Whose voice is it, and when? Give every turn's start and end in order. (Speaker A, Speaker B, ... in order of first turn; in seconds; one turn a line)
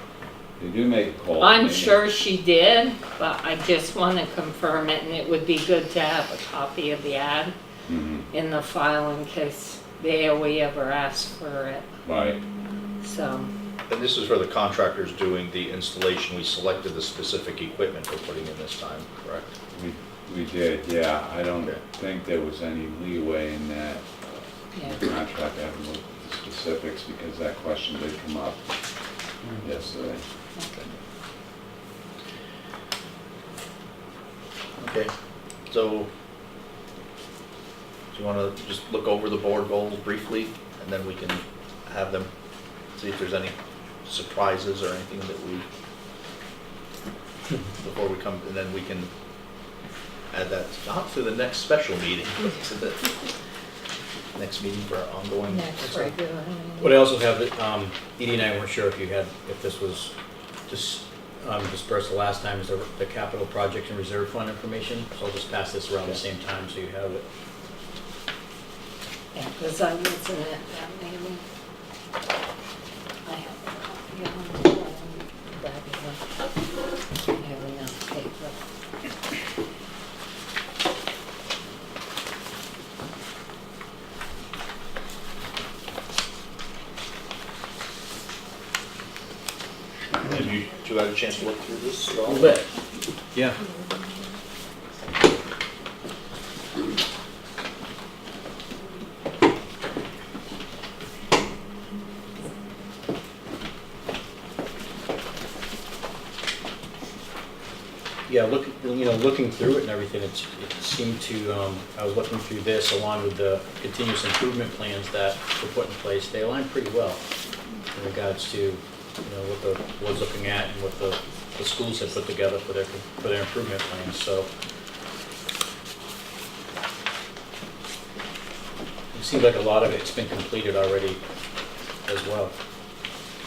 Speaker A: 0.6-2.0
Speaker B: 1.4-7.5
Speaker A: 7.9-8.3
Speaker B: 8.3-11.8
Speaker A: 12.0-12.4
Speaker B: 13.0-13.5
Speaker C: 13.9-19.5
Speaker A: 19.7-28.6
Speaker B: 24.7-25.0
Speaker A: 29.6-30.2
Speaker B: 30.6-30.8
Speaker C: 34.8-35.1
Speaker C: 35.7-36.1
Speaker C: 38.1-42.3
Speaker C: 43.0-45.6
Speaker C: 47.8-49.1
Speaker C: 50.3-53.1
Speaker C: 54.3-55.7
Speaker B: 55.5-57.1
Speaker D: 55.8-56.1
Speaker D: 56.8-60.1
Speaker D: 60.7-67.2
Speaker B: 69.3-71.4
Speaker B: 73.2-76.2
Speaker B: 77.3-78.5
Speaker C: 90.2-92.5
Speaker D: 92.3-92.6
Speaker D: 93.3-93.6
Speaker D: 108.3-117.2
Speaker D: 117.9-124.5
Speaker D: 129.1-131.2
Speaker D: 132.1-132.5